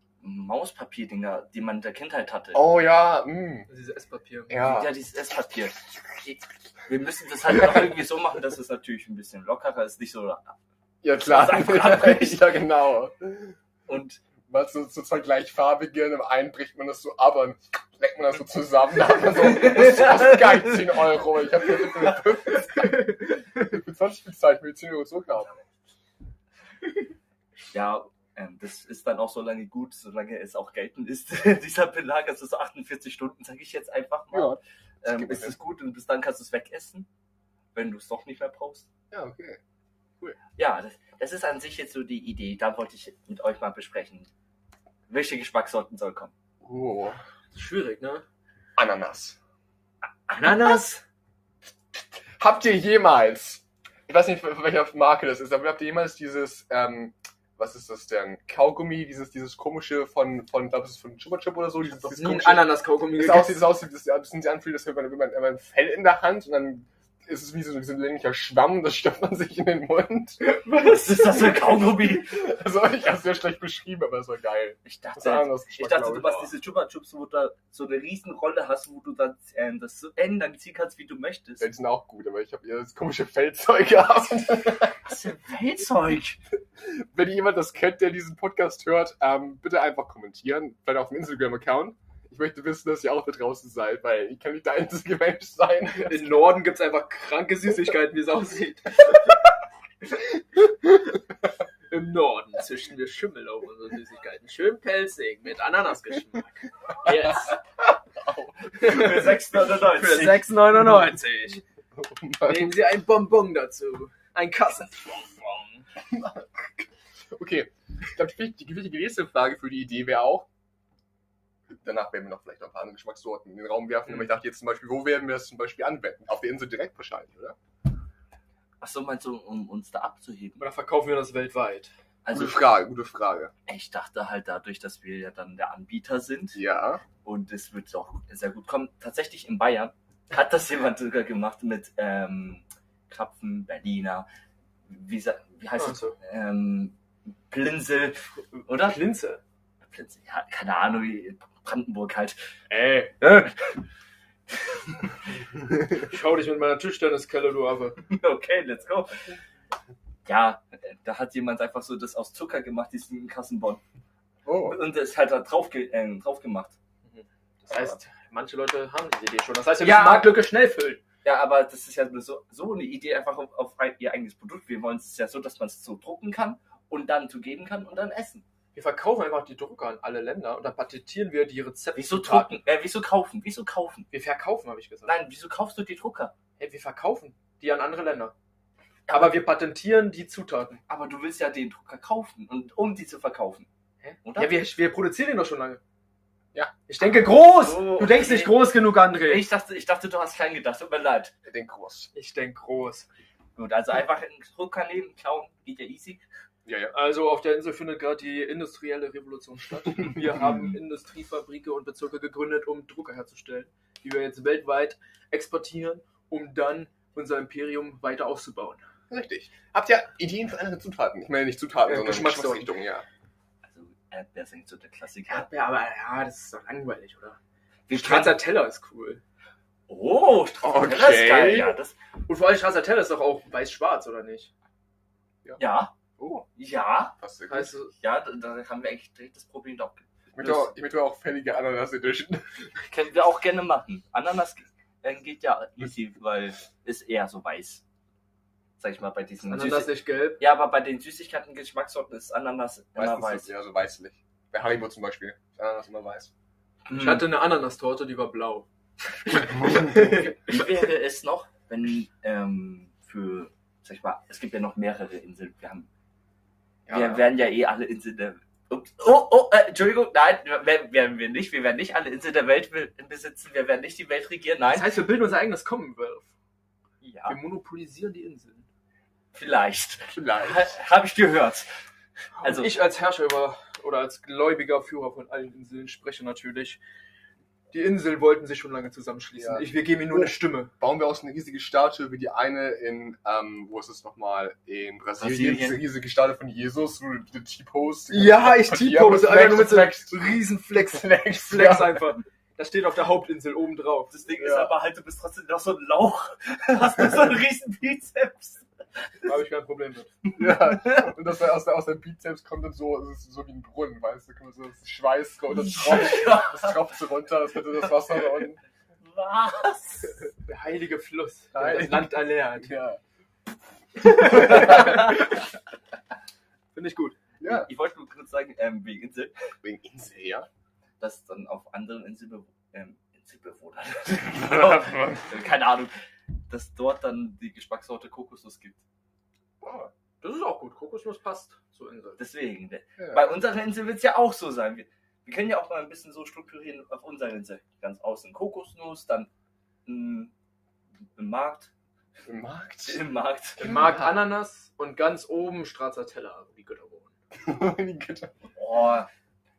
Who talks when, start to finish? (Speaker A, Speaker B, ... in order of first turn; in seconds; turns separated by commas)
Speaker A: 0.2-2.6, Speaker B: 2.5-3.7, Speaker C: 3.7-4.5, Speaker B: 4.5-4.9, Speaker A: 4.6-10.6, Speaker B: 11.0-13.6, Speaker A: 11.2-12.5, Speaker A: 13.9-14.2, Speaker B: 14.5-25.6, Speaker A: 19.5-20.9, Speaker C: 22.7-23.7, Speaker A: 27.7-37.1, Speaker B: 34.3-35.6, Speaker A: 37.8-38.9, Speaker B: 39.1-39.6, Speaker A: 40.6-44.3, Speaker A: 45.1-46.3, Speaker B: 46.6-47.2, Speaker C: 47.5-48.2, Speaker B: 48.8-49.4, Speaker A: 50.3-50.8, Speaker C: 50.4-51.0, Speaker B: 52.4-70.4, Speaker C: 61.9-63.7, Speaker A: 70.4-72.4, Speaker B: 71.8-76.4, Speaker A: 74.8-81.6, Speaker B: 81.6-85.0, Speaker A: 85.0-86.4, Speaker B: 86.8-96.5, Speaker C: 96.0-99.5, Speaker C: 100.0-101.0, Speaker C: 101.9-107.6, Speaker B: 107.0-107.6, Speaker B: 108.1-108.7, Speaker A: 108.8-110.5, Speaker C: 108.8-111.6, Speaker B: 112.0-112.8, Speaker C: 112.4-115.8, Speaker B: 116.0-120.5, Speaker B: 121.8-127.6, Speaker A: 128.8-130.6, Speaker C: 130.6-131.9, Speaker A: 132.2-132.6, Speaker B: 132.3-133.5, Speaker A: 133.7-136.6, Speaker B: 136.5-137.0, Speaker A: 137.2-144.3, Speaker A: 144.9-147.0, Speaker C: 145.8-146.2, Speaker A: 147.5-149.0, Speaker C: 148.7-149.4, Speaker A: 149.9-152.4, Speaker C: 152.7-153.2, Speaker A: 153.2-153.8, Speaker A: 154.6-155.2, Speaker C: 155.9-158.0, Speaker A: 158.1-159.2, Speaker A: 160.3-163.8, Speaker B: 164.4-164.8, Speaker A: 164.6-166.8, Speaker C: 167.1-171.0, Speaker A: 169.8-170.4, Speaker A: 171.2-178.4, Speaker C: 178.7-182.6, Speaker A: 181.9-184.1, Speaker C: 184.1-185.1, Speaker A: 185.1-186.3, Speaker C: 186.6-188.3, Speaker C: 189.1-190.8, Speaker A: 190.9-193.7, Speaker C: 194.0-195.8, Speaker A: 194.2-194.5, Speaker C: 196.9-199.5, Speaker A: 197.3-201.3, Speaker B: 201.4-202.1, Speaker C: 202.2-203.1, Speaker A: 203.6-206.2, Speaker B: 206.7-206.9, Speaker C: 206.9-218.8, Speaker B: 219.1-223.1, Speaker C: 221.9-222.7, Speaker A: 223.7-225.5, Speaker C: 225.3-227.4, Speaker A: 227.9-228.4, Speaker C: 227.9-229.2, Speaker A: 229.9-231.9, Speaker B: 230.6-231.8, Speaker C: 232.3-234.5, Speaker A: 235.6-235.9, Speaker B: 236.2-236.5, Speaker A: 236.6-237.2, Speaker B: 237.2-237.7, Speaker C: 237.5-237.9, Speaker A: 238.0-240.1, Speaker B: 240.3-242.7, Speaker C: 240.4-240.7, Speaker A: 242.9-247.8, Speaker A: 248.8-253.5, Speaker C: 249.5-250.4, Speaker B: 253.0-256.3, Speaker A: 256.9-257.3, Speaker C: 256.9-258.7, Speaker C: 259.3-260.3, Speaker A: 259.7-265.9, Speaker B: 266.9-267.2, Speaker A: 266.9-274.9, Speaker C: 274.7-276.3, Speaker A: 277.0-277.4, Speaker C: 277.3-278.7, Speaker A: 279.3-281.7, Speaker B: 280.1-280.7, Speaker A: 282.4-282.7, Speaker C: 282.4-286.8, Speaker C: 287.7-290.7, Speaker B: 289.4-302.1, Speaker A: 295.2-295.8, Speaker C: 298.1-304.1, Speaker A: 304.1-308.7, Speaker B: 304.4-304.7, Speaker C: 309.2-310.2, Speaker A: 310.3-311.1, Speaker B: 310.4-318.6, Speaker A: 315.5-316.8, Speaker A: 319.1-320.2, Speaker C: 320.4-322.7, Speaker B: 321.5-323.0, Speaker C: 324.0-325.4, Speaker B: 324.2-325.0, Speaker A: 324.4-324.9, Speaker C: 326.7-327.2, Speaker B: 327.4-327.7, Speaker A: 327.4-329.3, Speaker B: 329.6-330.5, Speaker A: 331.0-335.9, Speaker B: 334.3-335.4, Speaker A: 336.5-338.8, Speaker B: 339.6-339.9, Speaker C: 340.2-342.2, Speaker A: 342.2-349.3, Speaker B: 343.0-343.3, Speaker A: 349.9-350.3, Speaker A: 351.2-351.7, Speaker B: 352.3-353.0, Speaker A: 352.9-353.6, Speaker C: 353.6-357.1, Speaker B: 353.6-354.1, Speaker B: 357.3-358.3, Speaker A: 358.6-359.1